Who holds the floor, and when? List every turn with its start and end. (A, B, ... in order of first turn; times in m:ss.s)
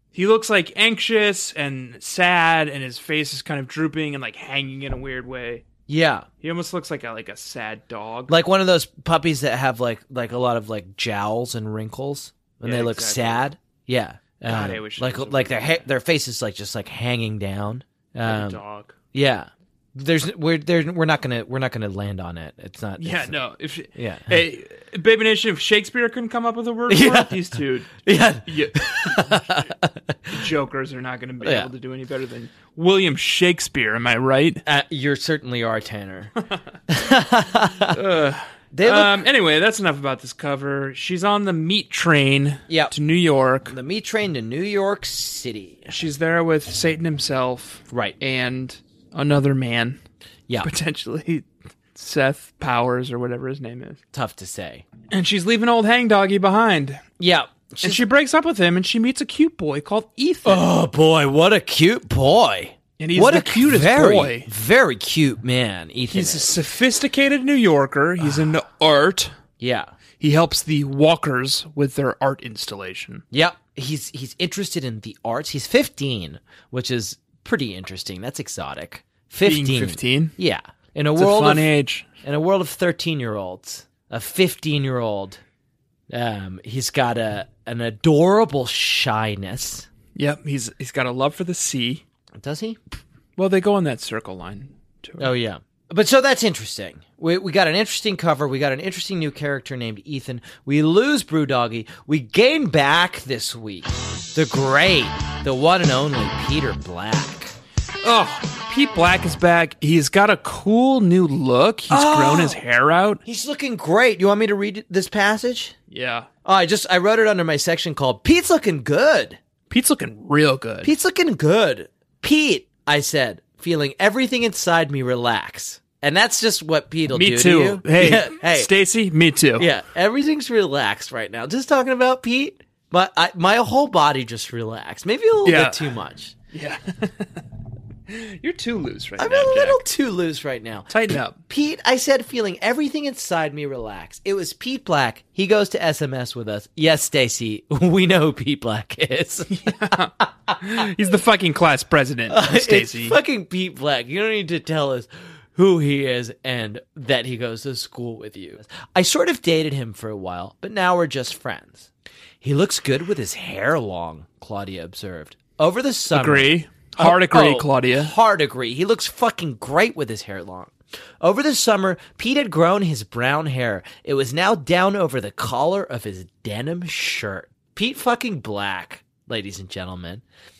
0:00.1-0:05.7 A
0:05.9-0:06.3 B
0:06.4-0:08.4 A
0:08.3-0:18.6 B
0:12.6-0:13.4 A
0:14.4-0:15.8 A
0:18.3-0:19.0 A
0:19.1-0:23.4 B
0:23.0-0:29.6 A
0:23.9-0:24.3 B
0:26.9-0:27.4 B
0:28.0-0:30.4 B
0:30.3-0:34.6 A
0:31.4-0:31.7 B
0:34.7-0:36.3 B
0:36.9-0:38.0 B
0:37.9-0:43.8 A
0:38.7-0:39.2 B
0:42.7-0:42.9 B
0:43.7-0:45.9 B
0:45.9-0:50.0 A
0:47.9-0:48.2 B
0:50.6-0:54.0 A
0:54.1-0:54.9 B
0:55.1-0:57.0 A
0:57.2-0:58.0 B
0:57.8-1:00.6 A
1:00.4-1:06.5 B
1:03.0-1:04.5 A
1:06.1-1:09.3 A
1:08.2-1:08.5 B
1:09.6-1:09.9 B
1:10.2-1:13.2 A
1:13.3-1:21.7 B
1:19.4-1:20.4 A
1:21.2-1:22.1 A
1:22.2-1:25.4 B
1:26.1-1:29.9 B
1:30.2-1:32.0 A
1:32.4-1:32.8 B
1:33.4-1:35.3 A
1:35.2-1:47.5 B
1:48.0-1:53.2 A
1:51.9-1:52.6 B
1:53.2-1:55.7 B
1:55.9-1:56.3 A
1:56.4-1:59.4 B
1:59.7-2:00.9 A
2:00.8-2:08.7 B
2:07.1-2:09.7 A
2:09.6-2:16.4 B
2:15.4-2:15.8 A
2:16.5-2:17.4 A
2:18.1-2:19.8 A
2:19.2-2:30.8 B
2:20.9-2:21.4 A
2:29.5-2:33.2 A
2:32.3-2:41.9 B
2:42.4-3:00.2 B
2:46.1-2:48.1 A